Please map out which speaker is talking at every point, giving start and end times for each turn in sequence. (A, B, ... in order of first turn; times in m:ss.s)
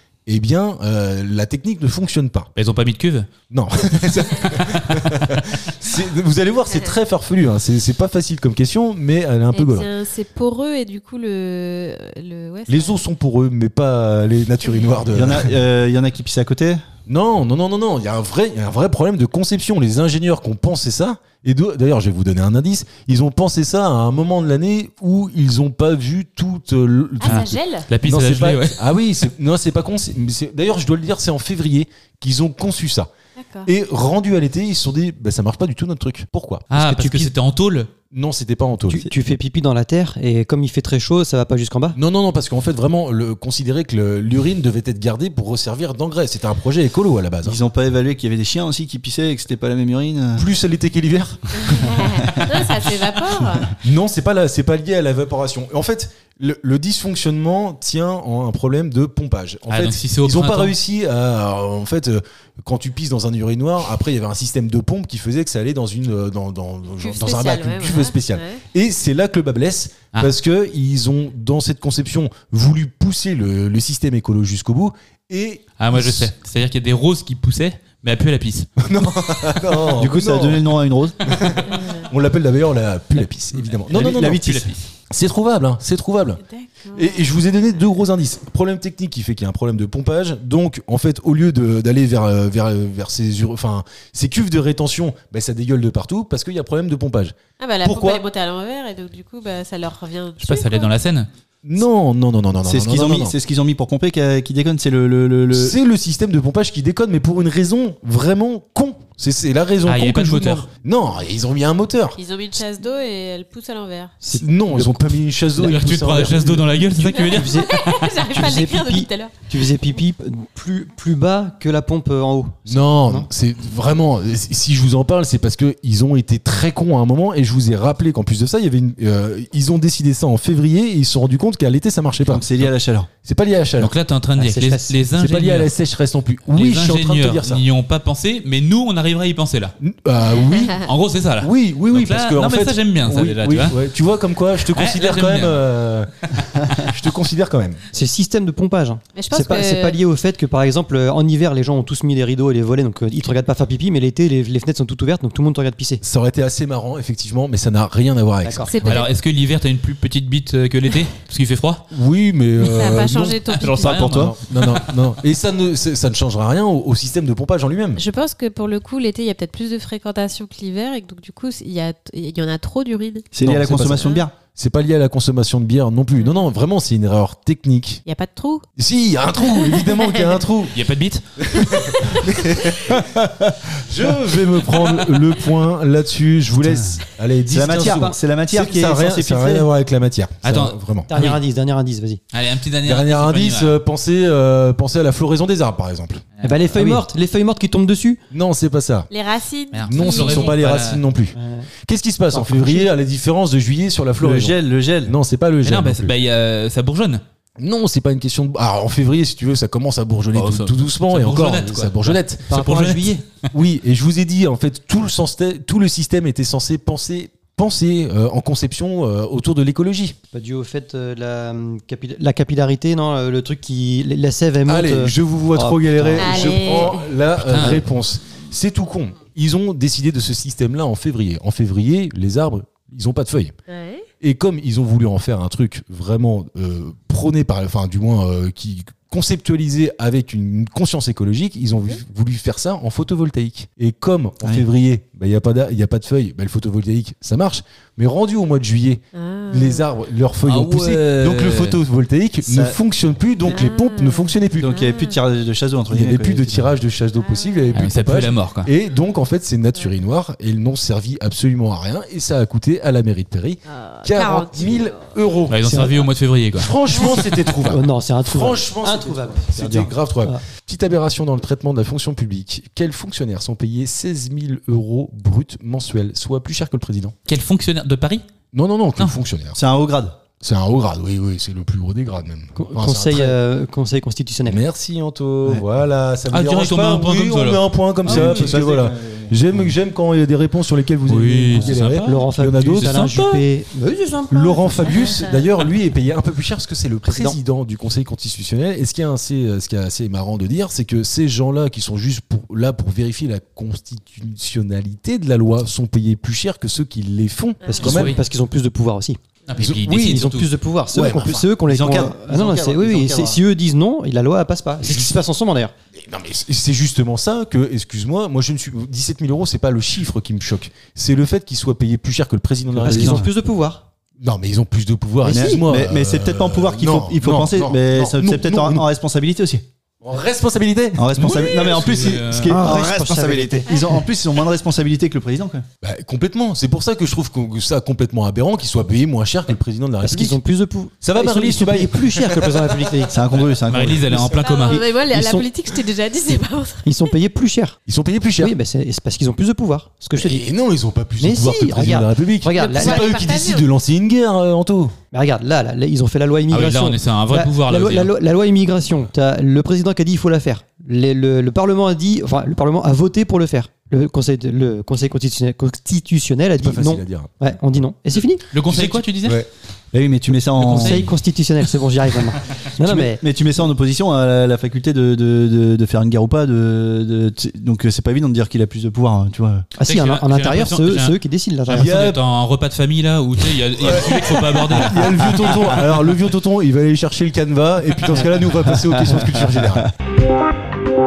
0:00.3-0:02.5 A
0:02.6-0:03.3 B
0:03.5-0:09.9 A
0:09.5-0:13.0 C
0:12.7-0:15.5 A
0:15.1-0:16.8 D
0:17.1-0:33.1 A
0:27.2-0:27.9 C
0:27.2-0:28.8 B
0:33.4-0:33.7 C
0:33.6-0:36.7 A
0:36.7-0:37.9 B
0:36.7-0:37.3 E
0:38.1-0:39.1 A
0:38.9-0:42.0 E
0:42.0-0:47.6 A
0:47.4-0:50.5 D
0:50.4-0:52.1 A
0:51.6-0:53.8 C
0:53.8-1:16.3 A
0:59.7-1:00.8 B
1:07.0-1:08.6 C
1:15.8-1:18.7 B
1:18.8-1:20.7 A
1:19.8-1:21.3 D
1:21.2-1:38.2 A
1:21.7-1:22.1 C
1:23.9-1:24.8 D
1:24.0-1:24.8 B
1:26.4-1:27.2 C
1:37.6-1:40.9 C
1:40.4-1:41.3 B
1:41.6-1:43.3 A
1:42.6-1:45.8 D
1:45.5-1:52.2 A
1:49.8-1:50.7 B
1:52.2-1:54.2 C
1:54.2-1:55.2 E
1:54.3-1:56.6 A
1:55.5-1:58.2 B
1:56.1-2:03.3 E
1:57.2-1:59.4 C
2:02.7-2:12.7 A
2:12.2-2:13.1 D
2:13.2-2:13.9 A
2:13.8-2:15.7 B
2:14.4-2:15.0 E
2:15.1-2:17.6 A
2:16.5-2:19.8 B
2:19.8-2:20.8 A
2:20.8-2:23.8 B
2:21.4-2:27.8 A
2:24.6-2:25.7 B
2:26.3-2:26.7 B
2:27.9-2:36.0 E
2:29.2-2:30.0 C
2:36.0-2:39.0 A
2:38.4-2:38.7 E
2:38.6-2:39.1 C
2:38.8-2:41.8 B
2:41.9-2:43.4 A
2:42.6-2:44.0 C
2:43.5-2:45.0 B
2:43.8-2:44.3 D
2:44.0-2:48.0 A
2:48.0-2:53.3 C
2:53.3-2:54.3 D
2:53.4-2:58.0 A
2:56.2-2:56.5 C
2:58.0-2:58.6 C
2:58.8-3:00.8 A
2:59.4-3:00.4 C
3:00.7-3:01.5 B
3:01.4-3:03.1 A
3:01.6-3:02.0 C
3:02.9-3:03.6 D
3:03.7-3:11.1 A
3:06.6-3:09.7 D
3:07.8-3:08.2 E
3:10.4-3:11.4 B
3:11.1-3:12.2 E
3:12.3-3:13.8 B
3:12.8-3:16.2 A
3:16.4-3:16.6 B
3:16.4-3:18.2 E
3:16.8-3:17.0 D
3:18.3-3:19.1 A
3:19.1-3:20.6 C
3:19.7-3:21.0 B
3:19.9-3:26.1 A
3:21.3-3:21.7 E
3:22.3-3:22.9 E
3:24.2-3:25.2 D
3:25.6-3:27.2 B
3:27.6-3:32.5 A
3:30.3-3:33.3 B
3:32.5-3:33.2 E
3:33.5-3:40.2 A
3:40.3-3:46.8 E
3:44.7-3:53.5 A
3:46.2-3:47.1 C
3:47.4-3:47.8 B
3:53.7-3:54.0 C
3:54.2-4:14.8 A
4:04.4-4:04.7 D
4:09.1-4:09.9 C
4:10.4-4:11.8 B
4:12.4-4:12.8 D
4:13.4-4:15.2 C
4:14.6-4:16.8 D
4:15.9-4:25.8 A
4:17.2-4:17.8 C
4:17.7-4:18.7 B
4:23.7-4:25.0 C
4:25.5-4:27.3 B
4:25.6-4:26.0 E
4:26.6-4:37.1 A
4:26.9-4:27.2 C
4:27.6-4:30.4 E
4:29.5-4:29.9 D
4:37.3-4:38.2 B
4:38.5-4:39.6 A
4:39.5-4:40.2 D
4:40.4-4:43.4 A
4:42.6-4:44.6 E
4:44.5-4:53.0 A
4:46.3-4:48.6 B
4:48.0-4:49.7 D
4:51.1-4:53.4 B
4:51.6-4:55.2 E
4:54.3-5:08.2 A
4:54.9-4:55.4 C
4:57.0-4:57.4 E
5:07.6-5:07.9 C
5:07.6-5:09.2 E
5:07.8-5:08.2 B
5:09.5-5:10.5 B
5:09.6-5:10.2 A
5:09.9-5:15.7 E
5:10.9-5:11.5 A
5:11.1-5:13.4 D
5:14.8-5:15.1 A
5:15.9-5:23.2 A
5:22.7-5:23.3 D
5:22.8-5:23.8 E
5:24.2-5:28.8 A
5:25.2-5:25.6 E
5:25.2-5:29.6 D
5:30.0-5:31.5 A
5:31.0-5:35.6 D
5:31.2-5:32.6 B
5:32.5-5:33.7 E
5:35.8-5:40.4 A
5:40.0-5:43.2 E
5:41.0-5:42.8 A
5:43.1-5:44.4 D
5:43.7-5:44.8 B
5:44.3-5:47.1 C
5:44.8-5:45.5 E
5:46.8-5:47.8 E
5:47.9-5:48.5 A
5:48.4-5:50.4 E
5:50.2-5:54.9 A
5:51.2-5:53.2 E
5:52.5-5:53.7 C
5:55.1-6:08.4 E
5:56.5-5:58.1 B
6:06.6-6:07.4 A
6:08.5-6:09.4 B
6:08.7-6:09.5 A
6:09.9-6:11.1 D
6:10.6-6:11.1 B
6:10.7-6:13.2 E
6:12.8-6:19.6 D
6:19.8-6:21.9 E
6:19.8-6:25.8 B
6:21.7-6:22.2 A
6:23.8-6:29.9 A
6:28.9-6:29.8 D